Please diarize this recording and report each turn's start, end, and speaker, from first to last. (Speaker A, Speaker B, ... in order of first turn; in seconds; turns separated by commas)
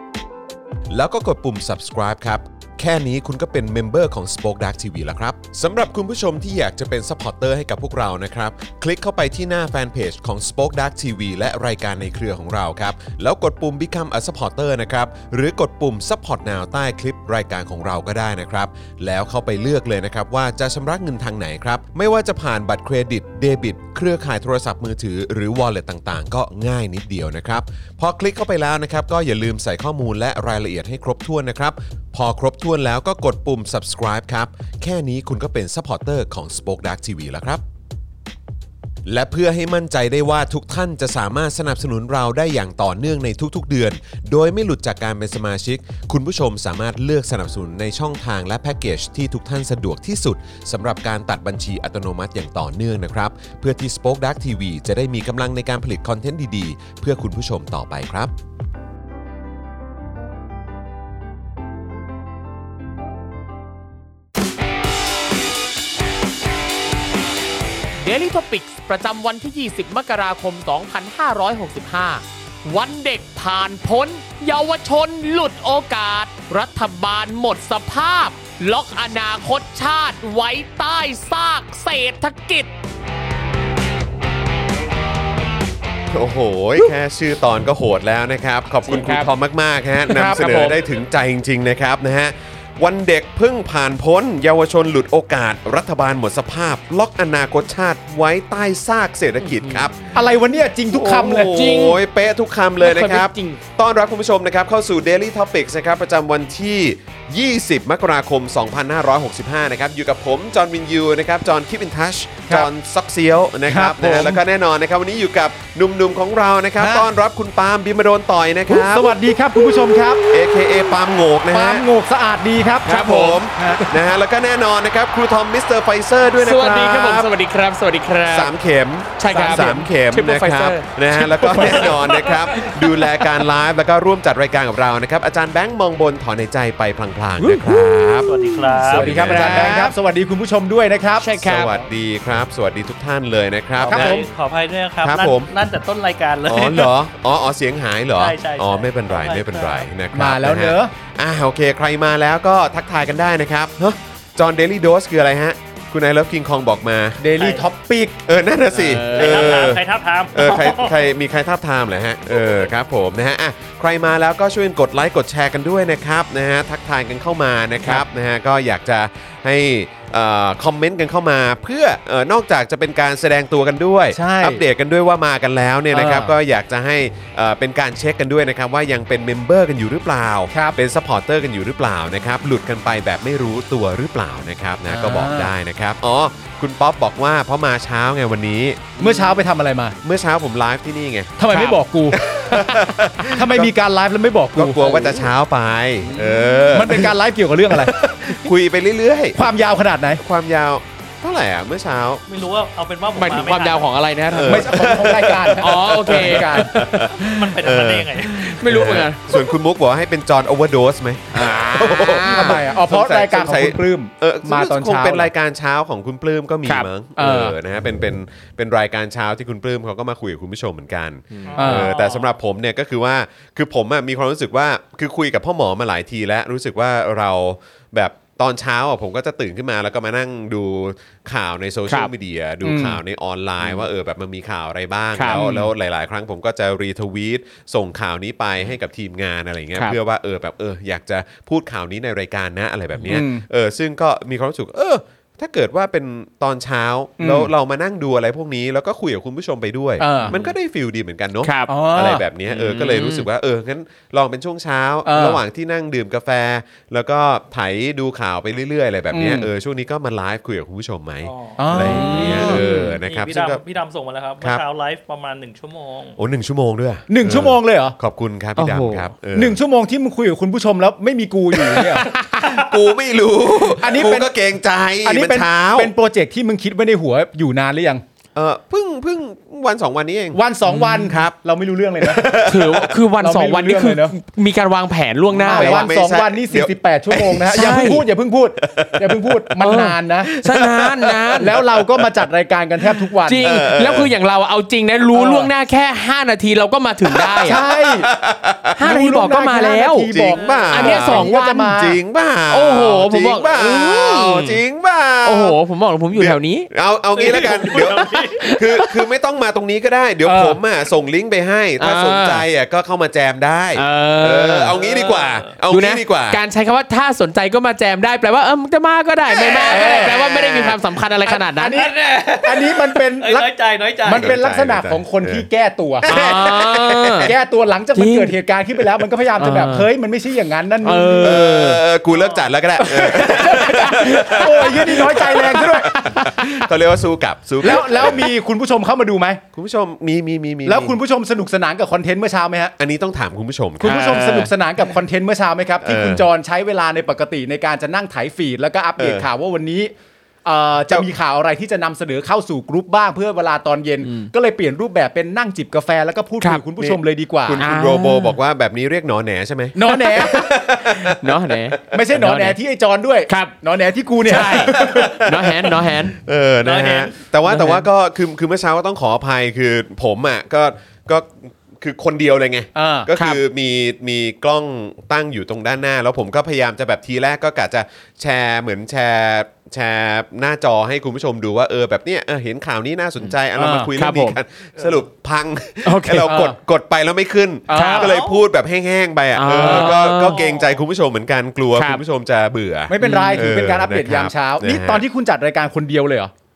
Speaker A: 0.9-37.6, Speaker A: 39.0-58.3, Speaker B: 68.0-82.7, Speaker A: 86.1-100.1, Speaker B: 88.9-89.3, Speaker B: 90.1-90.8, Speaker B: 99.4-99.8, Speaker C: 100.1-101.5, Speaker A: 100.9-119.1, Speaker B: 101.5-102.0, Speaker B: 102.8-103.6, Speaker C: 113.7-114.4, Speaker C: 116.8-117.1, Speaker C: 118.7-120.3, Speaker A: 120.3-121.9, Speaker C: 121.5-123.9, Speaker B: 122.8-123.4, Speaker A: 122.9-127.3, Speaker B: 126.4-128.5, Speaker A: 128.3-139.9, Speaker B: 129.2-133.4, Speaker C: 129.3-129.6, Speaker C: 131.4-132.3, Speaker B: 137.4-139.9, Speaker D: 138.2-139.1, Speaker C: 138.8-141.3, Speaker B: 141.2-141.8, Speaker A: 141.2-144.2, Speaker D: 143.8-146.9, Speaker C: 143.9-144.2, Speaker A: 145.0-145.5, Speaker A: 146.5-157.2, Speaker D: 148.2-149.9, Speaker C: 150.1-150.9, Speaker C: 157.2-158.2, Speaker D: 157.4-157.6, Speaker A: 158.2-188.9, Speaker B: 158.7-159.7, Speaker D: 159.1-160.9, Speaker C: 174.1-174.6, Speaker C: 175.9-176.3, Speaker C: 180.5-180.8, Speaker C: 184.9-185.5, Speaker C: 189.0-190.0, Speaker A: 190.0-191.3, Speaker C: 191.4-192.2, Speaker B: 191.5-191.8, Speaker A: 192.1-193.7, Speaker B: 192.6-192.8, Speaker C: 193.2-195.2, Speaker A: 194.5-197.1, Speaker B: 196.1-196.7, Speaker C: 196.7-197.9, Speaker A: 197.7-199.4, Speaker C: 199.3-200.2, Speaker A: 200.1-202.2, Speaker D: 202.3-203.9, Speaker B: 203.1-204.9, Speaker A: 204.3-263.6, Speaker C: 204.4-206.9, Speaker B: 205.6-206.7, Speaker D: 207.1-208.5, Speaker B: 208.3-209.2, Speaker B: 211.3-212.6, Speaker C: 212.2-215.3, Speaker C: 217.2-217.6, Speaker D: 221.5-222.3, Speaker B: 221.5-221.8, Speaker C: 221.6-221.9, Speaker C: 232.6-233.0, Speaker B: 235.2-235.5, Speaker C: 235.3-235.7, Speaker C: 243.1-243.4, Speaker C: 247.2-247.5, Speaker C: 250.0-250.3, Speaker B: 251.4-251.7, Speaker C: 251.7-252.2, Speaker B: 252.5-253.2, Speaker C: 255.0-255.4, Speaker C: 259.1-259.5, Speaker D: 261.2-266.2, Speaker C: 261.6-262.6, Speaker B: 261.8-262.9, Speaker A: 266.2-269.6, Speaker C: 267.1-267.9, Speaker C: 268.6-272.1, Speaker B: 268.6-269.0, Speaker B: 271.8-272.4, Speaker A: 272.3-275.9, Speaker C: 273.7-274.3, Speaker C: 275.0-278.0, Speaker A: 278.3-280.4, Speaker C: 280.3-282.4, Speaker B: 280.6-281.1, Speaker A: 281.1-281.3, Speaker A: 282.0-282.9, Speaker B: 282.4-285.9, Speaker C: 283.2-284.1, Speaker A: 285.3-287.7, Speaker C: 285.4-290.3, Speaker B: 287.5-288.0, Speaker A: 288.6-289.5, Speaker B: 289.6-291.5, Speaker A: 290.3-292.0, Speaker C: 291.4-293.5, Speaker A: 293.0-294.1, Speaker B: 293.2-297.6, Speaker C: 295.1-295.5, Speaker A: 297.1-298.8, Speaker C: 297.4-298.1, Speaker B: 298.8-300.1, Speaker C: 298.8-302.0, Speaker A: 300.1-305.6, Speaker D: 300.3-301.0, Speaker B: 300.7-301.7, Speaker B: 302.5-304.6, Speaker B: 305.2-306.7, Speaker A: 306.1-316.4, Speaker D: 307.1-308.6, Speaker B: 307.4-308.8, Speaker C: 310.3-310.6, Speaker B: 311.8-312.4, Speaker B: 313.7-314.8, Speaker D: 314.7-315.5, Speaker B: 315.7-321.8, Speaker A: 319.5-320.8, Speaker C: 319.6-320.3, Speaker C: 321.2-323.5, Speaker D: 321.7-324.3, Speaker C: 324.0-326.1, Speaker A: 324.2-325.4, Speaker A: 326.0-327.3, Speaker B: 326.1-327.3, Speaker C: 327.2-331.7, Speaker B: 327.9-328.3, Speaker B: 329.4-329.9, Speaker B: 330.8-331.8, Speaker A: 331.2-338.3, Speaker D: 332.1-332.5, Speaker C: 332.8-335.9, Speaker B: 333.6-336.6, Speaker C: 337.6-339.4, Speaker A: 339.5-340.9, Speaker C: 340.6-342.7, Speaker A: 342.8-344.3, Speaker C: 343.8-349.9, Speaker B: 343.8-344.5, Speaker A: 345.8-346.2, Speaker A: 349.0-349.3, Speaker C: 350.4-357.6, Speaker B: 354.0-354.3, Speaker A: 356.8-361.9, Speaker B: 357.6-358.4, Speaker C: 359.7-360.5, Speaker B: 359.9-362.6, Speaker C: 361.9-365.2, Speaker B: 363.3-363.5, Speaker B: 364.2-366.1, Speaker A: 364.3-395.0, Speaker D: 366.6-367.2, Speaker B: 367.4-367.9, Speaker C: 372.7-373.1, Speaker C: 383.5-383.9, Speaker B: 383.9-384.4, Speaker B: 385.8-386.6, Speaker C: 387.7-388.1, Speaker B: 387.7-388.1, Speaker D: 388.0-388.4, Speaker B: 389.4-390.4, Speaker D: 390.3-390.8, Speaker C: 392.9-396.3, Speaker B: 393.0-393.5